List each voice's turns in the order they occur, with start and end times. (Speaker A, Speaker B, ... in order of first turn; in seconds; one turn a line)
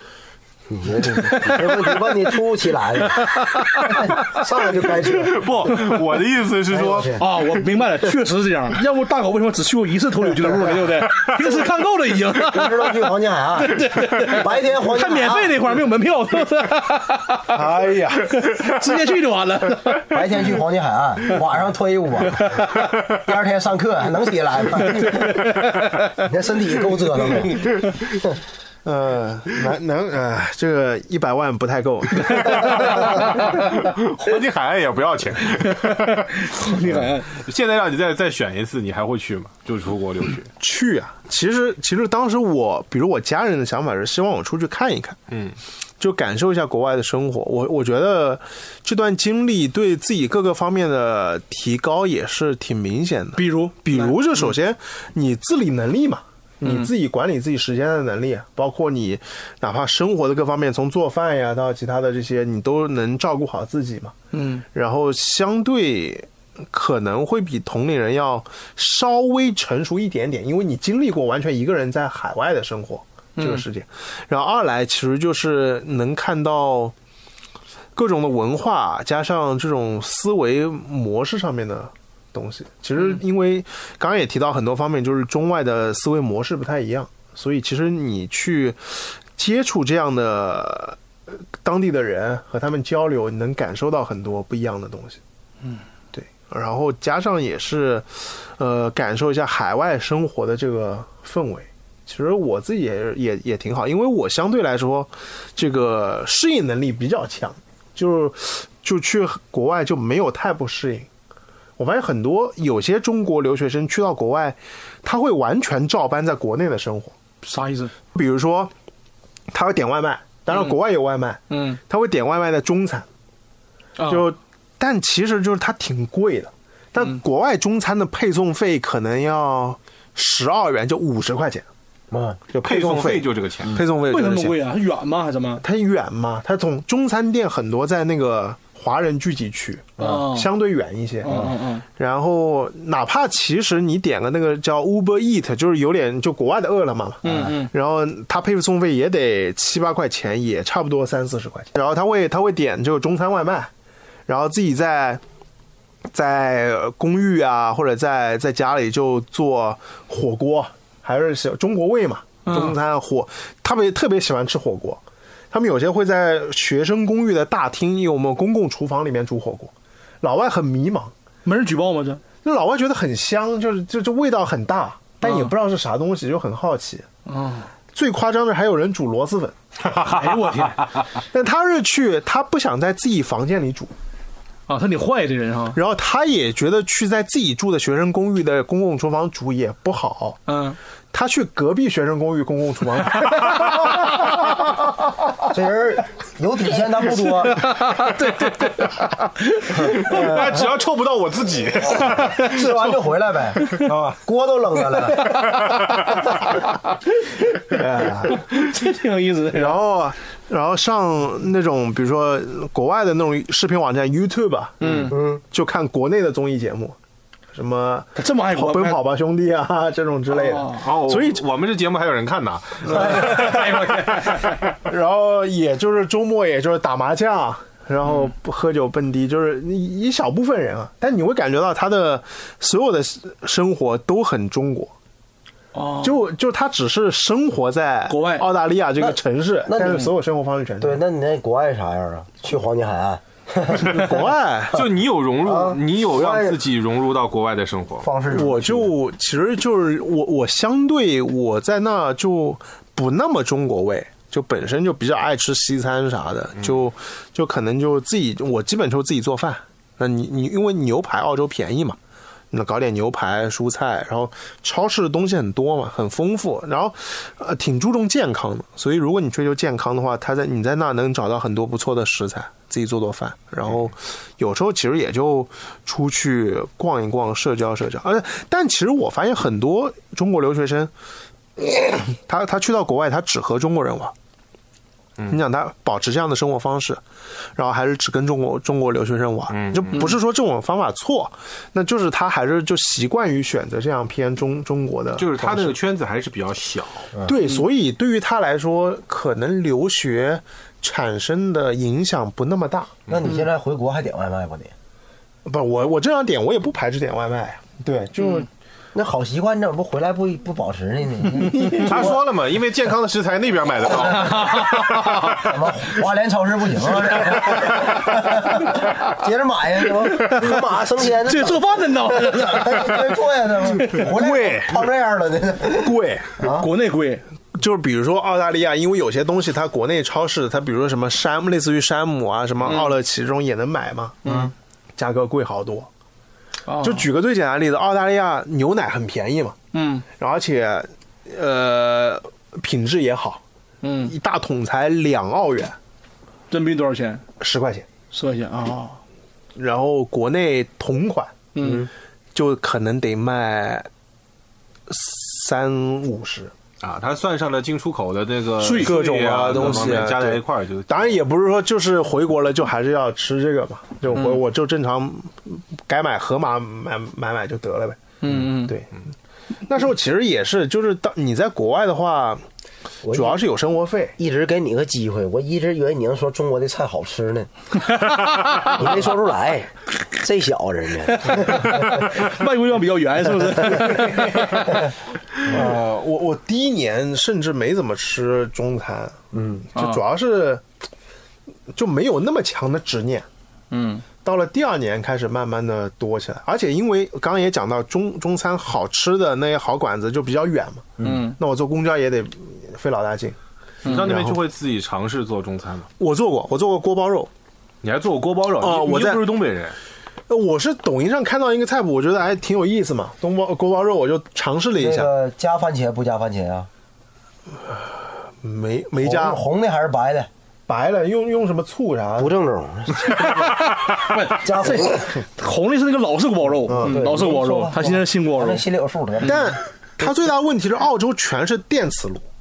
Speaker A: 0.7-5.9
Speaker B: 5.0-7.3
Speaker A: 6.7-7.3
Speaker C: 7.2-13.1
Speaker A: 12.4-15.7
Speaker C: 13.6-17.6
Speaker D: 17.5-18.3
Speaker C: 18.2-20.1
Speaker A: 20.1-25.4
Speaker C: 24.9-26.1
Speaker A: 26.2-27.7
Speaker D: 28.9-33.5
Speaker B: 32.6-40.5
Speaker C: 35.6-37.3
Speaker D: 40.6-45.2
Speaker B: 45.3-45.6
Speaker D: 46.0-64.2
Speaker C: 53.4-54.5
Speaker C: 56.6-56.9
Speaker C: 64.3-64.7
Speaker D: 64.7-76.9
Speaker C: 73.4-73.6
Speaker D: 78.0-91.0
Speaker D: 91.5-95.2
Speaker D: 96.1-111.1
Speaker D: 111.8-117.2
Speaker C: 117.4-117.9
Speaker D: 118.1-118.7
Speaker D: 119.5-123.1
Speaker C: 121.5-121.8
Speaker C: 124.0-124.2
Speaker D: 124.1-131.7
Speaker A: 132.1-132.4
Speaker D: 132.5-134.6
Speaker B: 132.6-133.8
Speaker C: 134.1-135.6
Speaker D: 135.6-153.7
Speaker C: 140.0-140.5
Speaker C: 141.2-141.8
Speaker A: 141.3-141.5
Speaker C: 147.2-147.7
Speaker D: 154.3-155.2
Speaker D: 156.1-171.1
Speaker C: 162.4-162.8
Speaker C: 171.4-172.2
Speaker D: 172.4-177.1
Speaker C: 175.2-175.5
Speaker C: 177.3-177.7
Speaker D: 177.9-179.6
Speaker B: 179.9-180.3
Speaker C: 179.9-180.9
Speaker D: 181.3-183.9
Speaker C: 184.7-185.8
Speaker D: 185.8-190.4
Speaker C: 190.5-190.8
Speaker D: 191.1-194.3
Speaker A: 195.5-197.7
Speaker C: 197.5-200.1
Speaker A: 199.8-200.7
Speaker B: 199.8-202.6
Speaker A: 201.9-205.4
Speaker D: 203.8-204.2
Speaker D: 207.7-208.5
Speaker C: 208.5-209.8
Speaker D: 209.5-217.0
Speaker C: 214.8-215.1
Speaker B: 214.8-215.1
Speaker A: 215.1-215.4
Speaker D: 217.5-221.4
Speaker C: 218.2-219.0
Speaker C: 220.3-220.8
Speaker B: 220.7-224.6
Speaker D: 222.8-223.9
Speaker C: 223.3-224.2
Speaker D: 224.8-234.9
Speaker C: 235.7-236.2
Speaker D: 236.0-241.0
Speaker C: 238.1-238.5
Speaker A: 239.0-240.1
Speaker A: 240.8-244.2
Speaker D: 243.9-244.8
Speaker B: 244.7-248.1
Speaker A: 245.4-246.6
Speaker A: 248.0-248.9
Speaker D: 248.3-262.0
Speaker D: 262.5-280.9
Speaker D: 281.6-284.1
Speaker D: 285.3-287.0
Speaker D: 287.6-295.8
Speaker B: 289.5-290.1
Speaker B: 295.2-297.1
Speaker D: 297.2-302.9
Speaker A: 303.1-304.7
Speaker D: 305.4-308.5
Speaker C: 308.2-308.5
Speaker A: 308.9-312.2
Speaker D: 311.6-312.1
Speaker B: 311.6-315.6
Speaker A: 313.9-314.4
Speaker C: 314.1-315.2
Speaker A: 315.2-326.7
Speaker C: 320.2-323.2
Speaker C: 323.7-324.1
Speaker D: 324.1-324.9
Speaker D: 325.8-326.3
Speaker C: 326.6-327.2
Speaker D: 327.6-334.2
Speaker C: 332.6-332.9
Speaker C: 334.2-334.5
Speaker D: 335.0-335.9
Speaker C: 336.7-337.1
Speaker D: 336.8-339.6
Speaker C: 339.7-340.1
Speaker D: 340.1-343.4
Speaker C: 343.8-344.1
Speaker D: 344.1-345.8
Speaker C: 346.5-347.2
Speaker D: 347.4-347.9
Speaker C: 348.1-349.0
Speaker D: 349.6-351.3
Speaker C: 351.6-351.9
Speaker A: 351.6-351.9
Speaker D: 352.4-353.9
Speaker D: 354.9-356.5
Speaker B: 356.8-361.2
Speaker C: 358.6-359.0
Speaker D: 358.8-368.0
Speaker C: 359.5-360.1
Speaker C: 368.2-368.8
Speaker D: 368.6-368.9
Speaker D: 369.7-372.4
Speaker A: 373.0-373.4
Speaker D: 373.1-374.1
Speaker A: 374.2-377.5
Speaker C: 377.8-378.9
Speaker A: 378.7-382.1
Speaker C: 381.1-384.8
Speaker D: 385.4-389.2
Speaker A: 385.5-385.8
Speaker A: 389.3-389.7
Speaker D: 389.7-390.6
Speaker C: 389.8-390.0
Speaker D: 391.7-393.3
Speaker C: 393.7-394.1
Speaker D: 394.2-403.4
Speaker C: 401.0-401.4
Speaker C: 403.9-404.1
Speaker B: 403.9-405.9
Speaker D: 403.9-404.4
Speaker D: 406.0-407.3
Speaker B: 407.8-409.8
Speaker D: 408.6-409.3
Speaker D: 410.3-415.1
Speaker A: 414.8-416.7
Speaker D: 418.4-419.4
Speaker A: 419.0-420.3
Speaker D: 420.7-422.3
Speaker A: 422.2-423.6
Speaker C: 423.1-428.6
Speaker A: 424.3-425.2
Speaker D: 426.7-427.0
Speaker A: 426.7-430.1
Speaker D: 429.2-432.2